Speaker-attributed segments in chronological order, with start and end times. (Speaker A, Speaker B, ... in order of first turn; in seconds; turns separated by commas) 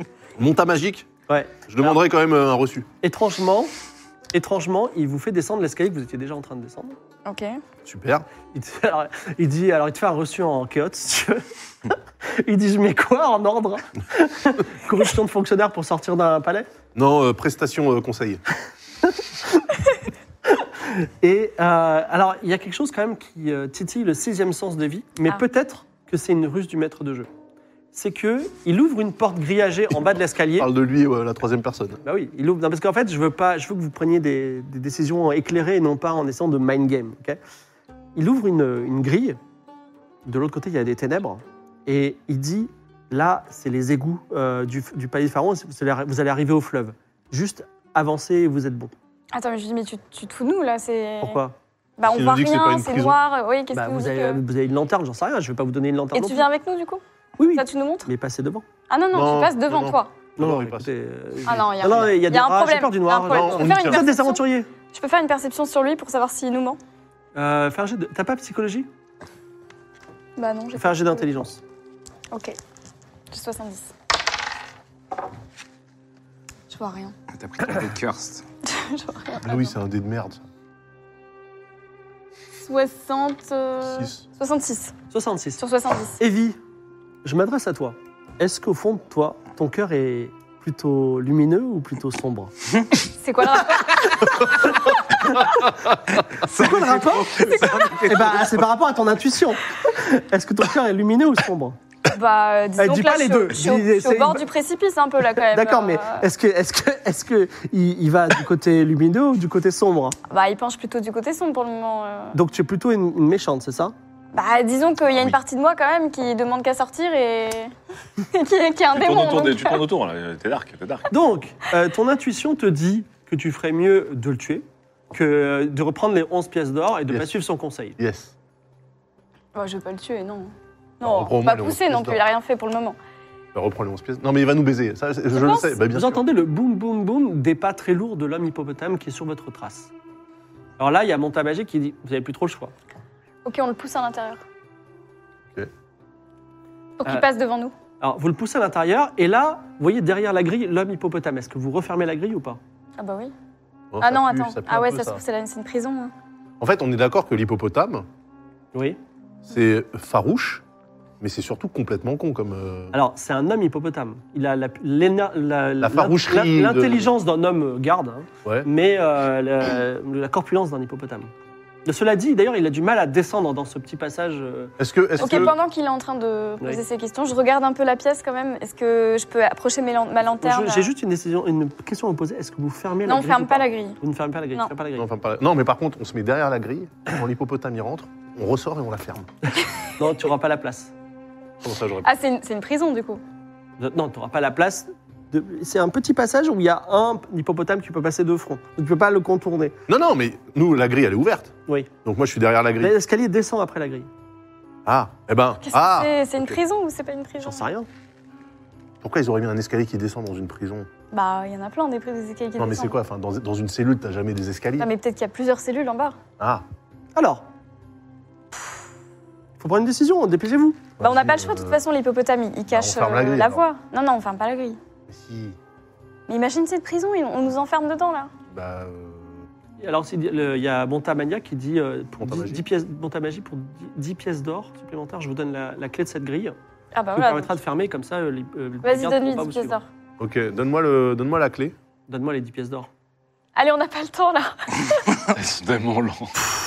Speaker A: 0.4-1.1, Speaker B: 1.3-2.0, Speaker A: 1.7-2.9, Speaker B: 3.0-3.7, Speaker B: 4.3-7.0, Speaker C: 7.2-7.6, Speaker A: 7.8-8.2, Speaker B: 8.5-11.4, Speaker B: 12.4-16.7, Speaker A: 16.9-18.4, Speaker B: 20.5-27.3, Speaker B: 27.9-30.7, Speaker A: 30.6-32.0, Speaker B: 32.0-37.4, Speaker B: 38.1-39.4, Speaker B: 40.2-48.9, Speaker C: 49.3-51.4, Speaker B: 51.2-51.5, Speaker C: 52.0-54.4, Speaker A: 52.0-53.2, Speaker B: 53.7-56.5, Speaker C: 56.1-58.1, Speaker B: 57.4-58.6, Speaker C: 58.9-60.1, Speaker A: 59.1-60.9, Speaker B: 60.4-64.7, Speaker C: 61.5-64.4, Speaker A: 61.6-62.0, Speaker A: 63.2-64.0, Speaker C: 64.9-66.8, Speaker B: 67.3-68.9, Speaker C: 70.4-71.3, Speaker B: 70.8-71.6, Speaker C: 73.3-73.9, Speaker C: 76.7-77.1, Speaker D: 77.3-78.5, Speaker C: 78.7-79.7, Speaker A: 79.4-80.4, Speaker C: 82.6-85.0, Speaker A: 83.8-84.2, Speaker B: 85.1-85.6, Speaker C: 85.6-86.2, Speaker B: 86.2-86.6, Speaker B: 87.2-92.5, Speaker C: 93.2-94.7, Speaker D: 96.4-98.6, Speaker B: 96.5-101.8, Speaker C: 102.1-106.3, Speaker B: 102.8-104.5, Speaker B: 105.5-110.2, Speaker C: 110.3-112.4, Speaker B: 112.3-113.9, Speaker C: 114.3-117.7, Speaker C: 118.3-119.8, Speaker E: 118.9-121.1, Speaker B: 121.1-128.0, Speaker A: 127.1-127.3, Speaker A: 128.0-128.3, Speaker C: 129.6-133.0, Speaker A: 131.0-132.2, Speaker A: 133.5-136.2, Speaker C: 135.3-135.8, Speaker B: 135.9-139.9, Speaker B: 140.8-142.7, Speaker C: 143.4-144.4, Speaker C: 147.0-147.7, Speaker B: 148.0-152.6, Speaker C: 153.0-153.3, Speaker A: 153.9-155.2, Speaker C: 154.0-156.1, Speaker A: 156.6-158.1, Speaker B: 158.7-159.0, Speaker A: 159.5-160.6, Speaker A: 161.2-163.0, Speaker B: 162.9-171.3, Speaker A: 165.8-167.1, Speaker B: 171.8-174.7, Speaker A: 174.8-175.6, Speaker C: 175.2-180.9, Speaker B: 180.4-185.1, Speaker C: 183.1-184.0, Speaker A: 185.0-189.3, Speaker B: 190.0-190.9, Speaker A: 191.6-192.1, Speaker C: 192.0-193.2, Speaker B: 193.8-199.8, Speaker A: 199.9-201.5, Speaker A: 202.1-203.0, Speaker B: 202.8-204.1, Speaker A: 204.9-206.6, Speaker C: 205.6-207.7, Speaker B: 207.4-207.9, Speaker A: 209.0-210.9, Speaker C: 211.1-213.0, Speaker A: 212.6-214.9, Speaker C: 214.8-216.2, Speaker A: 216.4-216.6, Speaker B: 217.2-217.4, Speaker B: 219.6-220.9, Speaker A: 221.0-221.8, Speaker C: 221.0-224.8, Speaker A: 222.7-223.7, Speaker A: 225.1-225.6, Speaker C: 226.3-228.3, Speaker A: 228.5-229.5, Speaker B: 229.8-236.6, Speaker A: 232.2-232.7, Speaker C: 236.9-237.5, Speaker B: 237.2-239.8, Speaker C: 238.8-239.9, Speaker A: 240.2-241.8, Speaker B: 242.1-242.9, Speaker C: 243.6-245.1, Speaker E: 245.3-246.3